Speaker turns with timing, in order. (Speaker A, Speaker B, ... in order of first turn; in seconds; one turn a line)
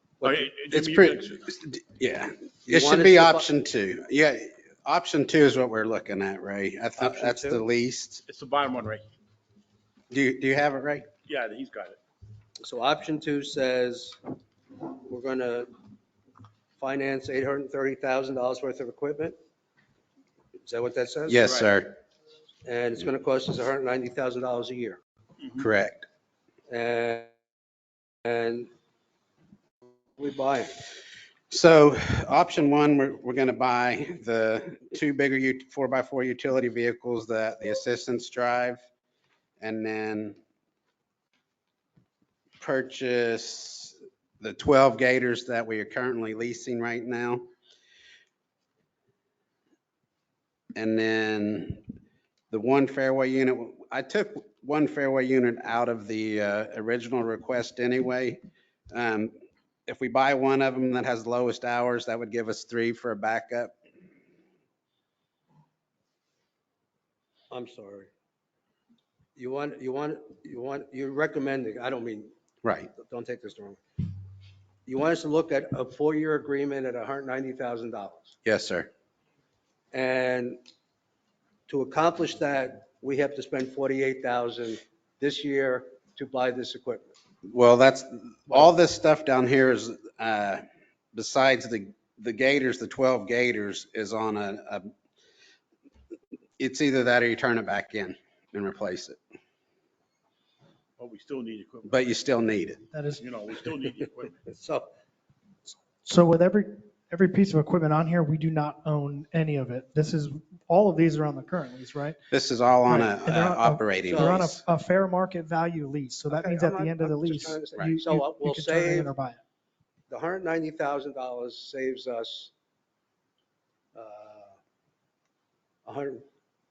Speaker A: 0.2-0.5
Speaker B: 0.2-1.5
Speaker C: 0.7-8.2
Speaker A: 2.6-3.5
Speaker A: 7.0-7.6
Speaker B: 8.3-9.0
Speaker C: 10.1-11.1
Speaker B: 11.3-12.0
Speaker A: 12.6-14.2
Speaker A: 15.0-15.7
Speaker A: 16.8-19.4
Speaker A: 20.6-21.5
Speaker C: 21.3-21.9
Speaker A: 22.6-25.0
Speaker C: 25.5-26.1
Speaker A: 26.7-27.3
Speaker A: 28.2-28.7
Speaker A: 30.2-30.8
Speaker C: 31.5-38.8
Speaker C: 39.6-40.4
Speaker C: 42.6-47.5
Speaker C: 50.7-51.8
Speaker C: 52.5-58.4
Speaker C: 58.9-59.3
Speaker C: 59.9-63.7
Speaker A: 67.5-68.1
Speaker A: 69.3-72.3
Speaker C: 72.6-72.9
Speaker A: 72.9-73.8
Speaker A: 74.8-78.3
Speaker C: 78.4-78.9
Speaker A: 79.9-80.6
Speaker A: 81.7-87.1
Speaker C: 87.5-90.6
Speaker C: 91.1-94.9
Speaker C: 96.6-99.2
Speaker B: 101.0-102.1
Speaker C: 101.9-102.8
Speaker D: 102.9-103.2
Speaker B: 103.2-104.4
Speaker A: 104.5-104.9
Speaker D: 105.7-112.2
Speaker C: 112.3-114.6
Speaker D: 112.9-119.4
Speaker A: 114.1-114.4
Speaker A: 116.3-119.1
Speaker A: 120.1-122.5
Speaker A: 123.9-124.6
Speaker A: 125.8-126.2